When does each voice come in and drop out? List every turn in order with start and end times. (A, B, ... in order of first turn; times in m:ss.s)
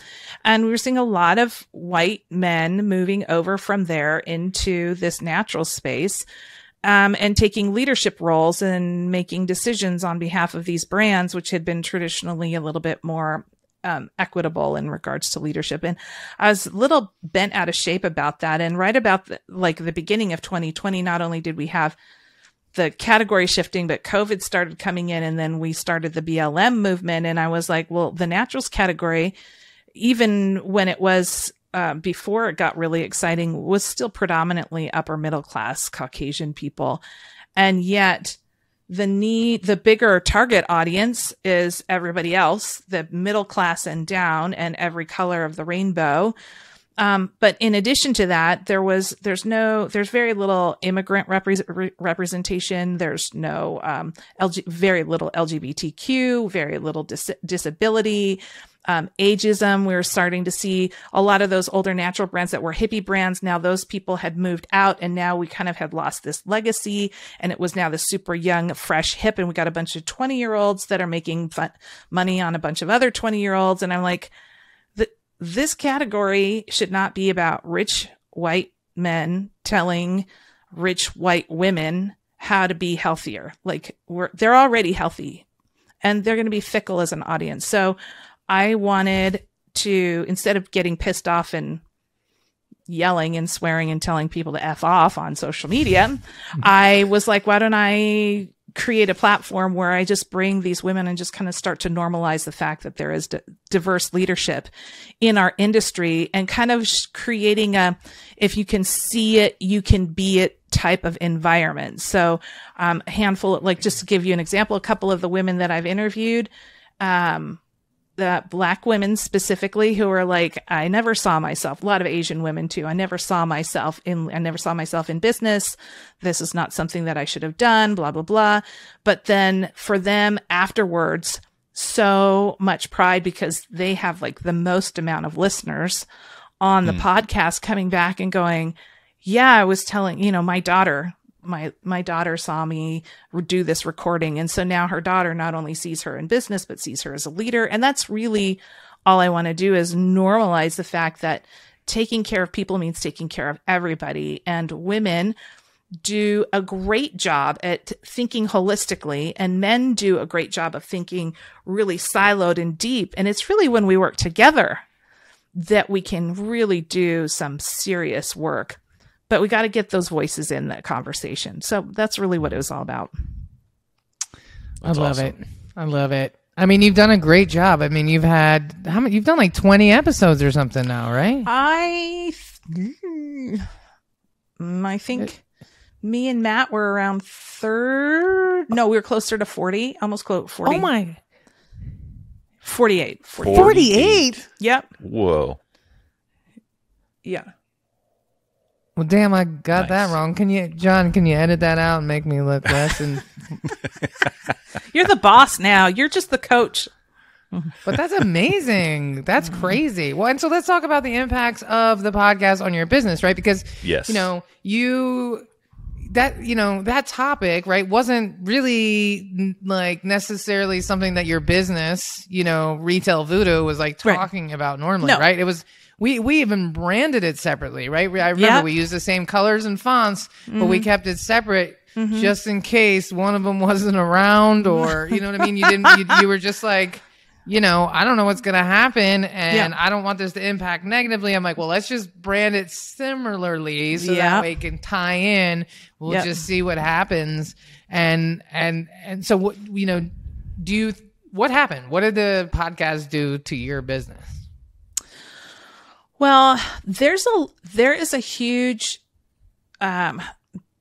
0:00.4-0:06.2 A
0:06.8-0:22.0 A
0:22.7-0:29.4 A
0:30.0-0:37.0 A
0:37.6-0:46.4 A
0:47.0-1:14.3 A
1:15.0-1:25.4 A
1:26.0-1:28.0 A
1:28.5-1:31.8 A
1:32.9-1:44.7 A
1:45.2-1:56.5 A
1:57.0-1:57.6 A
1:58.2-2:16.1 A
2:16.6-2:35.4 A
2:36.0-2:44.8 A
2:45.5-2:53.1 A
2:54.8-2:55.3 B
2:54.8-3:01.5 C
3:01.4-3:02.5 A
3:02.7-3:03.7 C
3:04.6-3:05.4 A
3:06.0-3:10.9 A
3:10.6-3:11.2 C
3:12.6-3:13.8 A
3:13.4-3:14.4 B
3:13.5-3:14.4 C
3:14.6-3:14.9 A
3:15.0-3:15.6 B
3:17.2-3:17.5 A
3:19.0-3:23.7 C
3:19.8-3:20.1 B
3:24.9-3:26.9 A
3:27.5-3:27.8 A
3:27.9-3:35.5 C
3:29.4-3:29.8 A
3:33.8-3:34.3 B
3:36.0-4:14.3 C
3:48.4-3:48.7 A
3:50.5-3:50.9 A
3:52.0-3:52.3 A
3:54.7-3:56.2 A
4:03.9-4:04.5 A
4:06.1-4:06.4 A
4:16.2-4:19.0 A
4:19.8-4:20.3 A